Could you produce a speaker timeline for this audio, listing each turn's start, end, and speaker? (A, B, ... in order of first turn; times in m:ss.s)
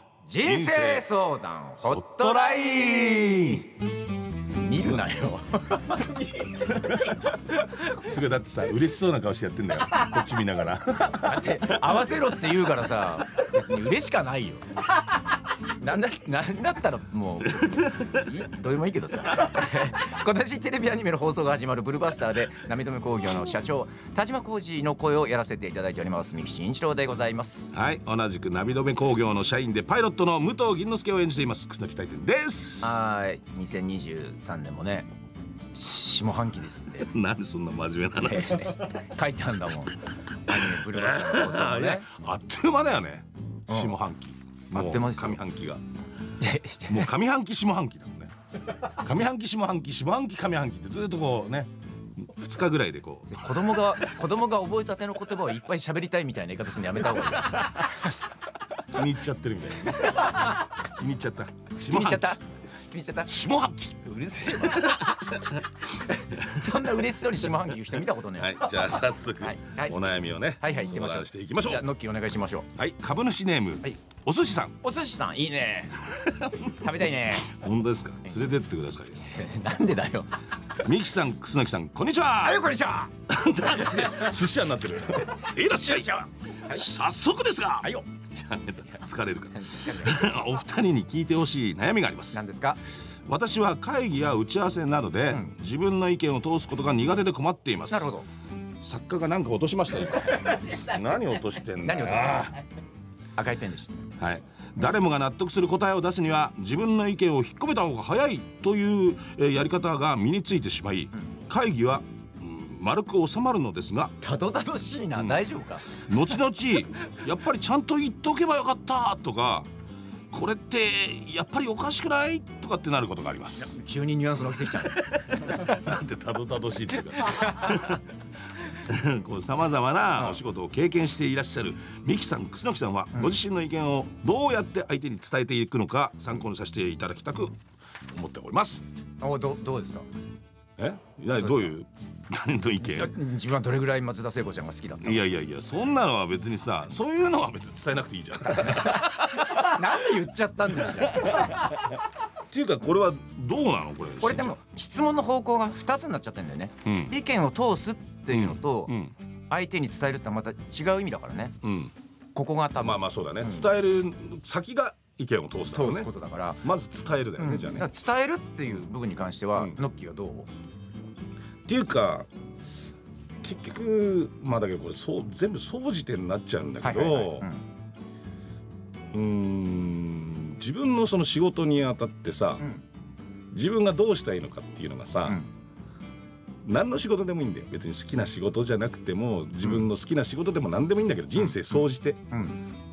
0:00.2-0:03.7 A
0:00.4-0:01.0 B
0:01.8-0:03.6 B
0:04.5-0:07.1 A
0:06.7-0:07.2 B
0:07.8-0:11.7 B
0:11.2-0:14.6 A
0:15.8-0:27.7 A
0:17.8-0:18.1 B
0:27.7-0:33.0 B
0:32.8-0:35.1 A
0:35.7-0:37.1 A
0:37.0-0:38.9 B
0:38.2-0:42.1 A
0:40.5-0:45.8 B
0:43.7-0:44.0 A
0:44.7-0:45.4 A
0:46.4-0:47.1 A
0:46.9-0:48.3 B
0:48.8-0:54.1 B
0:53.3-0:58.1 A
0:58.9-1:02.4 B
0:59.9-1:00.5 A
1:01.8-1:03.4 A
1:03.2-1:04.0 B
1:04.0-1:08.7 A
1:04.6-1:05.4 B
1:06.5-1:06.8 B
1:08.4-1:11.8 B
1:09.4-1:10.0 A
1:10.6-1:12.7 A
1:12.7-1:14.8 B
1:14.8-1:17.5 A
1:16.1-1:19.2 B
1:19.2-1:20.4 A
1:20.8-1:22.7 B
1:22.4-1:24.3 A
1:23.3-1:32.5 B
1:25.8-1:26.8 A
1:29.5-1:30.1 A
1:32.3-1:32.8 A
1:33.1-1:38.1 B
1:37.9-1:38.2 A
1:38.8-1:42.6 B
1:41.8-1:42.6 A
1:43.4-1:44.1 A
1:44.2-1:54.1 B
1:54.2-1:56.0 A
1:55.1-1:55.4 B
1:55.9-1:59.7 B
2:00.3-2:03.8 B
2:03.6-2:05.6 A
2:04.6-2:08.0 B
2:07.2-2:07.7 A
2:08.7-2:17.6 B
2:18.1-2:18.8 B
2:19.2-2:20.0 A
2:20.8-2:23.1 B
2:21.4-2:21.7 A
2:22.8-2:25.2 A
2:25.0-2:29.9 B
2:28.6-2:31.7 A
2:30.9-2:31.9 B
2:32.5-2:34.6 B
2:34.2-2:38.9 A
2:36.8-2:37.1 B
2:38.3-2:39.1 B
2:39.5-2:41.6 A
2:41.6-2:41.9 B
2:42.3-2:43.6 A
2:42.8-2:46.1 B
2:45.7-2:46.6 A
2:46.6-2:47.9 B
2:47.4-2:50.5 A
2:51.6-2:52.3 B
2:53.4-2:57.5 B
2:56.8-2:57.6 A
2:59.1-3:02.6 B
3:03.5-3:05.4 B
3:06.6-3:12.2 B
3:11.4-3:11.8 A
3:12.3-3:12.6 A